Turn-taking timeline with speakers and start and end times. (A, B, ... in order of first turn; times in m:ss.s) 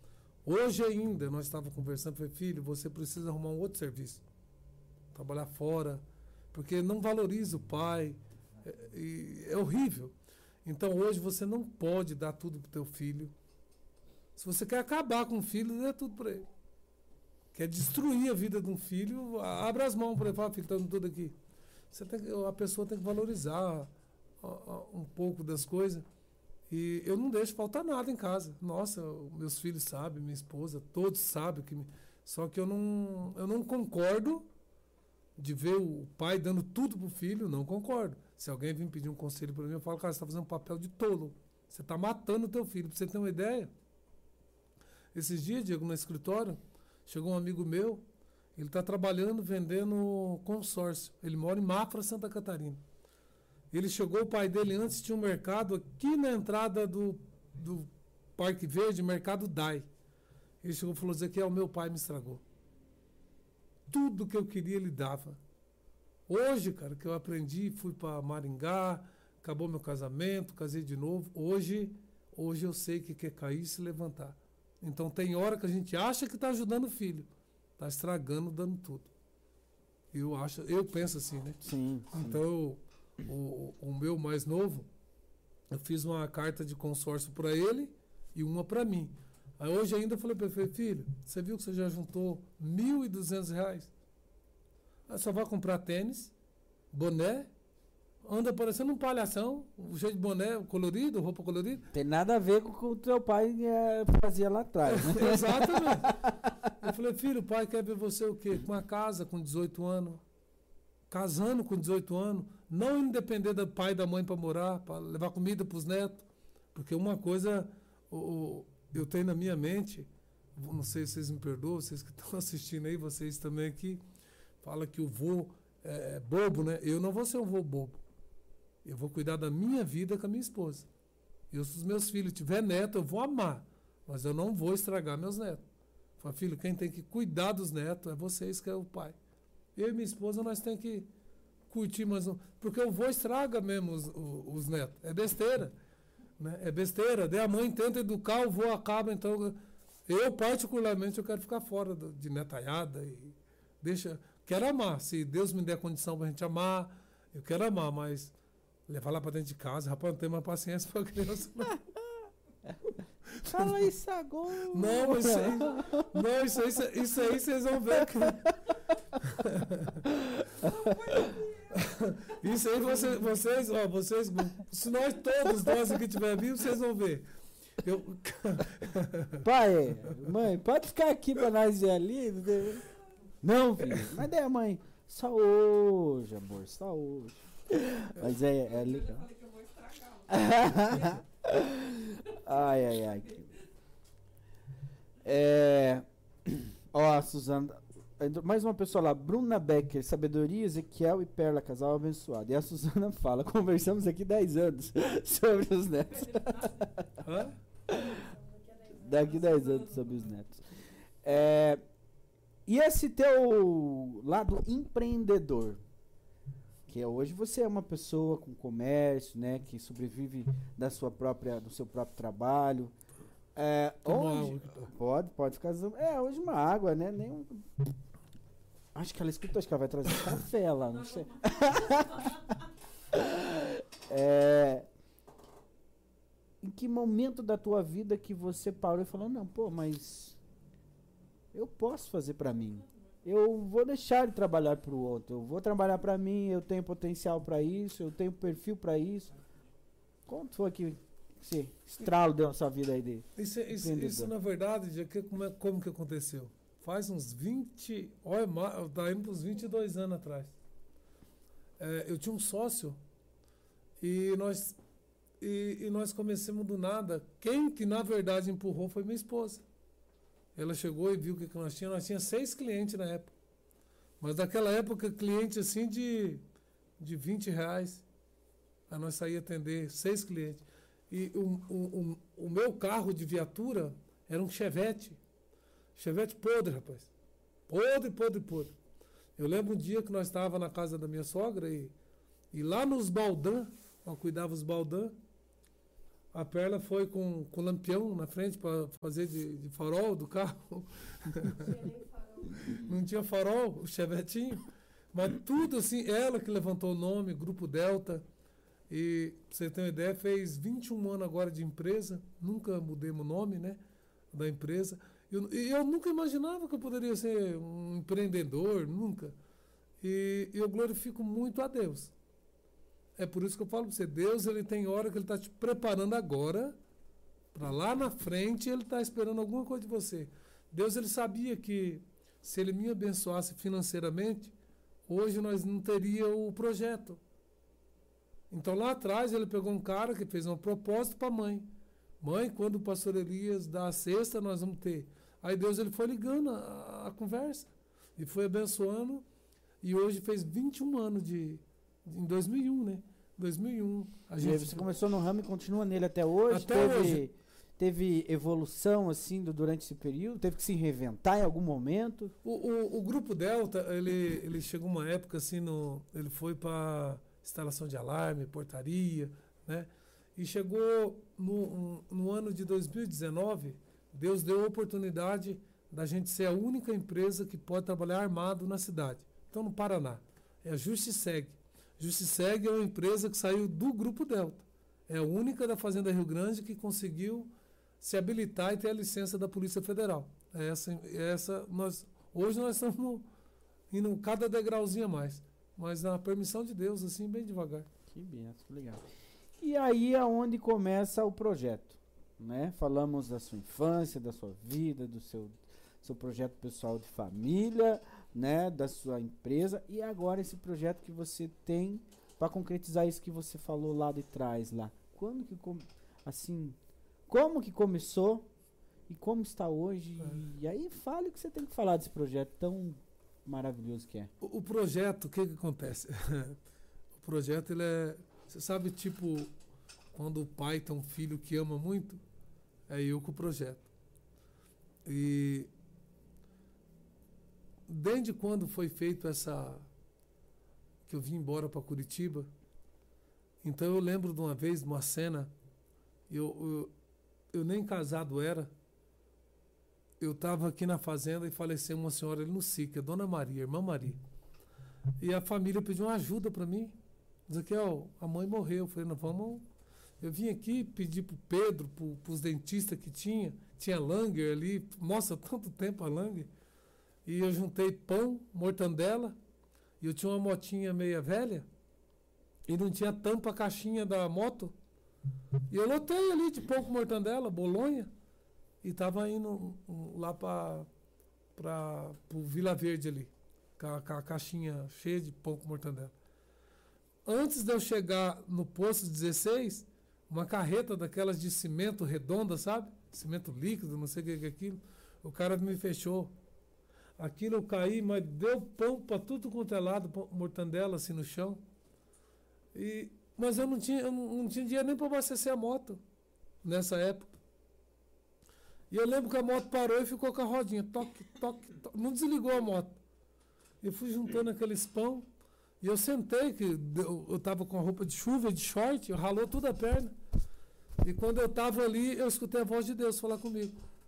0:00.4-0:04.2 A
0:05.1-0:10.1 A
0:10.6-0:13.3 A
0:14.4-0:16.5 A
0:17.5-0:21.3 A
0:21.9-0:23.9 A
0:24.4-0:26.0 A
0:26.7-0:34.4 A
0:35.4-0:43.7 A
0:45.1-0:48.0 A
0:48.6-0:52.8 A
0:53.7-0:59.9 A
1:00.6-1:02.4 A
1:03.9-1:05.4 A
1:06.3-1:19.1 A
1:20.1-1:21.6 A
1:21.6-1:22.4 B
1:22.1-1:24.9 A
1:25.7-1:33.9 A
1:35.1-1:36.3 A
1:36.9-1:37.5 A
1:38.2-1:41.9 A
1:41.9-1:46.7 B
1:44.8-1:50.2 A
1:51.1-2:04.0 A
2:04.6-2:08.0 A
2:08.8-2:10.9 A
2:11.5-2:15.6 A
2:16.2-2:19.2 A
2:19.8-2:21.1 A
2:21.7-2:25.7 A
2:26.4-2:38.3 A
2:38.9-2:41.8 A
2:43.4-2:43.9 A
2:43.5-2:46.1 B
2:44.6-2:48.6 A
2:49.2-2:50.0 A
2:50.1-2:51.4 B
2:50.6-2:51.8 C
2:51.7-2:57.3 A
2:57.8-2:59.4 A
2:59.4-3:02.8 B
3:03.4-3:09.3 B
3:08.5-3:11.2 C
3:10.3-3:13.6 B
3:13.2-3:13.6 C
3:15.2-3:27.2 B
3:26.2-3:26.9 C
3:27.2-3:27.6 A
3:27.9-3:30.6 B
3:28.4-3:30.2 C
3:31.2-3:31.8 B
3:32.6-3:35.8 B
3:36.9-3:42.9 B
3:43.6-3:47.7 B
3:44.0-3:44.9 A
3:48.9-3:52.6 B
3:50.9-3:52.7 C
3:53.1-3:54.9 B
3:56.6-4:00.4 B
4:01.5-4:09.4 B
4:10.3-4:14.3 B
4:13.4-4:20.5 A
4:21.8-4:23.0 A
4:24.0-4:24.8 A
4:25.4-4:29.6 A
4:30.6-4:33.3 A
4:34.2-4:36.4 A
4:37.0-4:38.0 A
4:38.9-4:45.2 A
4:46.0-4:47.1 A
4:47.7-4:48.7 A
4:49.4-4:51.9 A
4:52.5-4:55.1 A
4:56.3-5:01.9 A
5:01.7-5:02.6 C
5:02.7-5:08.2 A
5:08.9-5:13.8 A
5:14.3-5:19.3 A
5:20.0-5:22.1 A
5:23.2-5:26.8 A
5:27.5-5:34.5 A
5:35.1-5:37.2 A
5:38.5-5:41.7 A
5:42.2-5:49.2 A
5:49.8-5:54.8 A
5:54.4-6:02.3 B
5:56.5-5:57.2 A
6:02.4-6:33.2 A
6:33.9-6:37.9 A
6:38.1-6:39.0 B
6:39.6-6:56.8 B
6:57.3-6:58.5 B
6:59.1-7:04.3 B
7:04.4-7:06.6 A
7:07.2-7:09.5 A
7:10.1-7:12.2 A
7:12.9-7:13.8 A
7:15.0-7:15.7 A
7:17.9-7:19.9 A
7:21.1-7:22.5 A
7:23.6-7:25.5 A
7:26.3-7:26.9 A
7:27.5-7:28.7 A
7:30.2-7:34.2 A
7:35.2-7:37.0 A
7:37.5-7:39.6 A
7:40.2-7:46.5 A
7:47.2-7:49.4 A
7:50.0-7:51.7 A
7:52.7-7:54.7 A
7:55.7-7:58.1 A
7:58.8-8:00.9 A
8:01.6-8:06.1 A
8:07.2-8:16.3 A
8:17.2-8:21.6 A
8:22.7-8:26.0 A
8:26.6-8:27.4 A
8:28.9-8:33.0 A
8:33.8-8:35.2 A
8:35.8-8:40.1 A
8:41.0-8:43.7 A